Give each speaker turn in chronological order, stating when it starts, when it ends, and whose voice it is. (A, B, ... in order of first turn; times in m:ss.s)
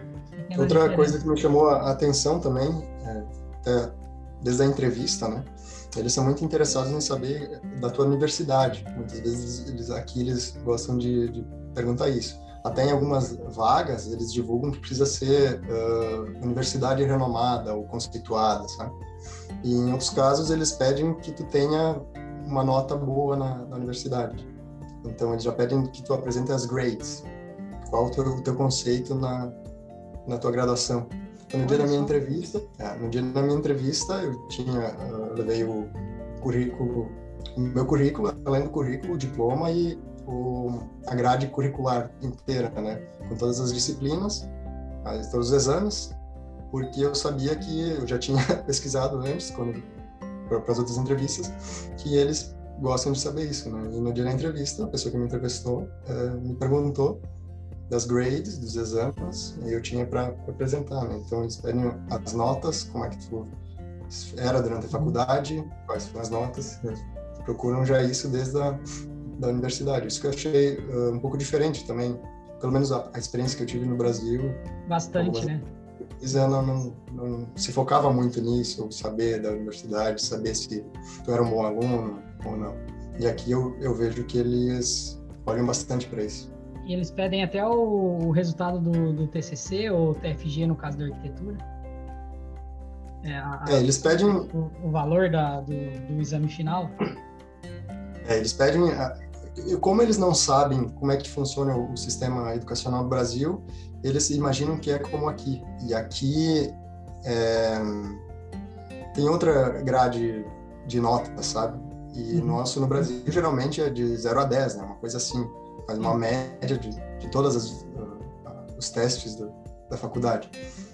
0:00.4-0:01.3 A
0:00.6-0:19.0 B
0:19.6-0:24.5 B
0:25.0-0:27.3 B
0:27.8-0:29.6 B
0:30.2-0:44.5 B
0:31.6-0:32.2 A
0:45.0-0:46.2 B
0:46.7-0:49.8 B
0:50.5-0:57.2 B
0:57.9-1:03.5 B
1:04.1-1:14.6 B
1:04.9-1:05.2 A
1:14.9-1:15.7 A
1:15.2-1:15.5 B
1:16.0-1:26.5 B
1:26.8-1:31.6 A
1:33.2-1:37.0 A
1:33.7-1:34.5 B
1:38.2-1:48.2 B
1:49.1-2:00.5 B
1:52.3-1:52.6 A